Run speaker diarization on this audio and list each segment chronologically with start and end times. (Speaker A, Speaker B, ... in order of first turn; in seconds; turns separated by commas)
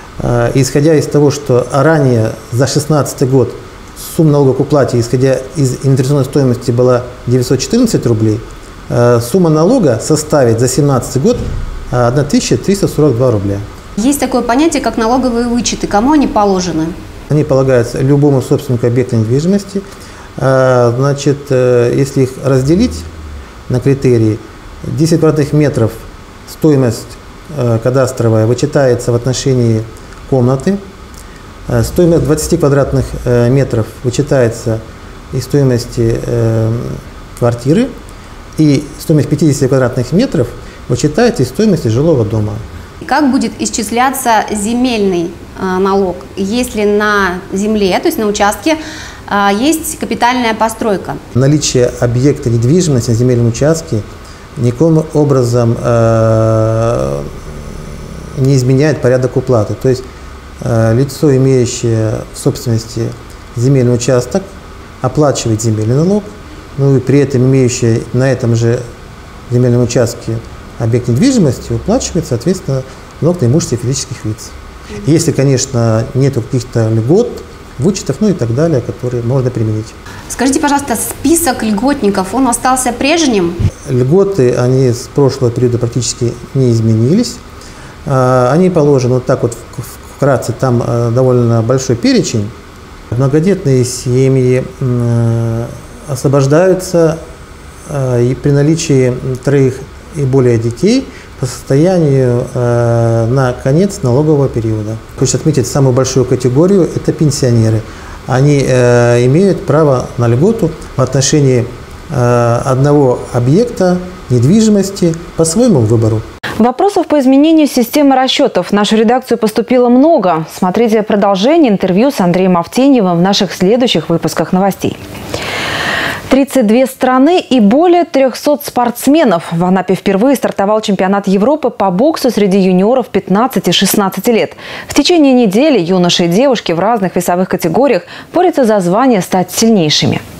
Speaker A: 0.2-13.6, Speaker B: 14.0-16.9, Speaker A: 17.3-19.8, Speaker A: 20.4-23.1, Speaker A: 23.7-30.8, Speaker A: 31.7-37.9, Speaker A: 38.6-42.6, Speaker B: 43.0-51.2, Speaker A: 51.3-54.0, Speaker A: 54.6-57.3, Speaker A: 58.4-60.0, Speaker A: 60.6-64.5, Speaker A: 65.0-68.8, Speaker A: 69.5-79.9, Speaker B: 80.3-83.6, Speaker A: 83.9-87.4, Speaker A: 88.1-92.5, Speaker A: 93.1-97.2, Speaker A: 97.9-116.2, Speaker C: 116.6-125.0, Speaker C: 126.3-140.2